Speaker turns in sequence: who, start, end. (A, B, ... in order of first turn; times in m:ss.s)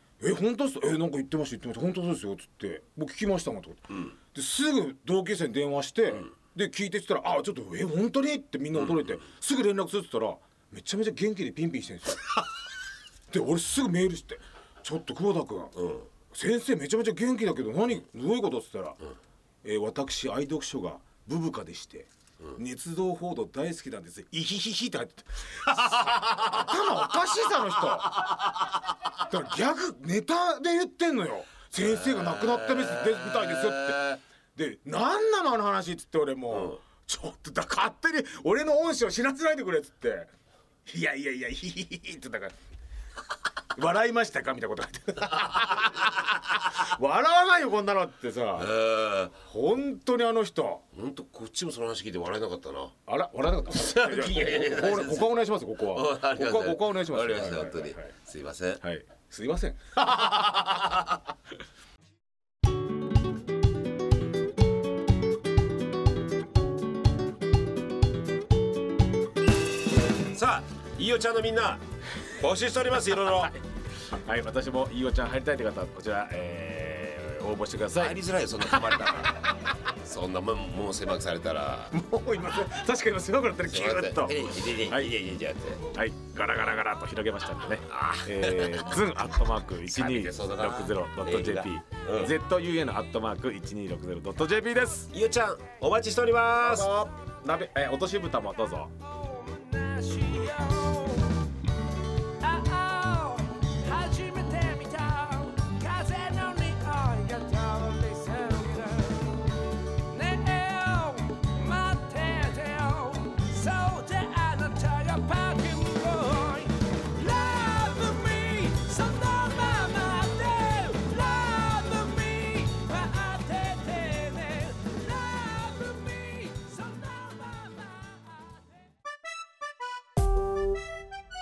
0:00.2-0:12.4 A
0:08.8-0:09.2 B
0:13.3-0:15.8 A
0:15.8-0:16.1 B
0:16.3-0:19.0 A
0:19.6-0:28.3 A
0:26.1-0:26.7 B
0:28.2-0:28.6 B
0:29.2-0:40.3 A
0:31.8-0:34.2 B
0:36.5-0:36.8 B
0:40.9-0:42.5 A
0:43.8-0:48.7 A
0:48.5-0:49.3 B
0:49.4-0:50.8 A
0:50.9-0:52.9 B
0:53.1-0:58.1 A
0:53.7-0:58.8 B
0:58.8-1:00.5 A
1:00.3-1:00.9 B
1:10.3-1:11.8 B
1:12.4-1:13.5 B
1:14.1-1:19.3 A
1:18.0-1:19.5 B
1:20.0-1:21.9 B
1:21.9-1:25.1 A
1:23.7-1:25.8 B
1:25.9-1:35.1 A
1:27.9-1:29.0 B
1:29.8-1:32.3 B
1:35.1-1:36.9 B
1:36.6-1:38.9 A
1:39.3-1:41.3 C
1:42.4-1:49.5 C
1:50.1-2:08.6 C